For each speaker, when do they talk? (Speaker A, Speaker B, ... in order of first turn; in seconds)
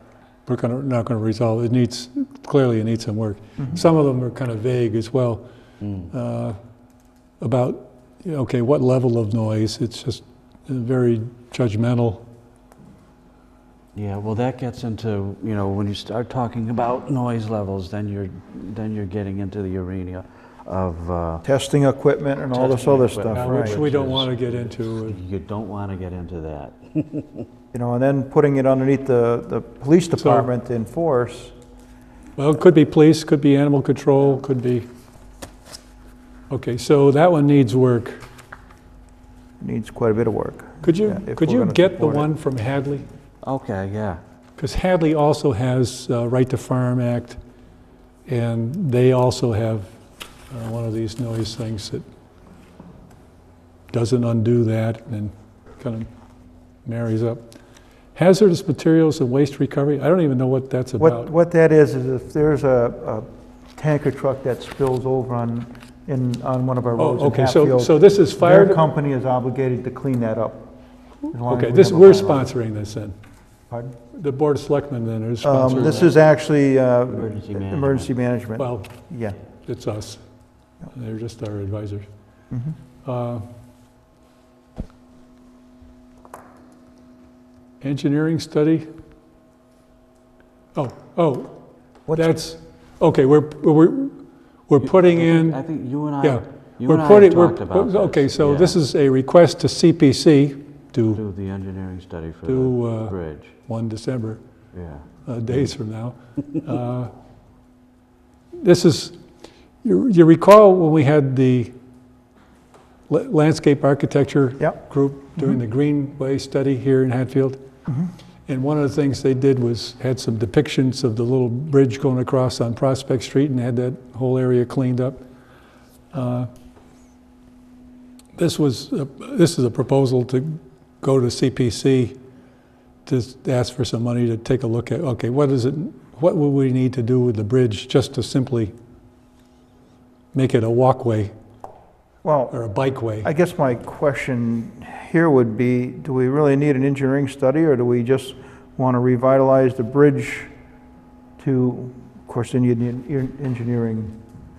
Speaker A: 0.5-5.5, 6.1-6.6, 7.4-12.3, 23.4-25.2, 30.2-30.5, 32.4-34.9, 36.5-38.2, 40.8-43.1, 44.6-47.4, 48.3-49.9, 50.5-52.0, 53.9-56.1, 56.9-57.4, 58.1-61.3, 67.0-68.8, 71.3-73.2, 74.1-76.1, 78.6-78.9, 79.6-80.2, 80.9-82.1, 83.0-83.5, 87.8-88.9, 90.8-91.6, 92.1-94.2, 94.7-95.6, 96.2-101.2, 102.5-103.2, 103.7-104.4, 105.3-107.1, 108.6-109.2, 109.8-111.7, 113.1-117.6, 118.5-125.2, 126.1-126.5, 128.4-132.2, 133.1-138.7, 140.3-141.3, 142.5-143.3
Speaker B: 5.8-6.1, 13.9-21.4, 22.5-27.5, 43.4-44.2, 75.7-76.2, 77.1-78.1, 94.8-98.8, 101.1-103.5, 104.7-105.1
Speaker C: 21.4-23.8, 27.7-31.5, 39.6-42.3, 61.0-70.7, 71.3-72.5, 73.7-74.0, 75.4-79.4, 82.5-82.8, 92.1-92.4, 142.2-142.6, 143.2-150.5, 151.4-154.2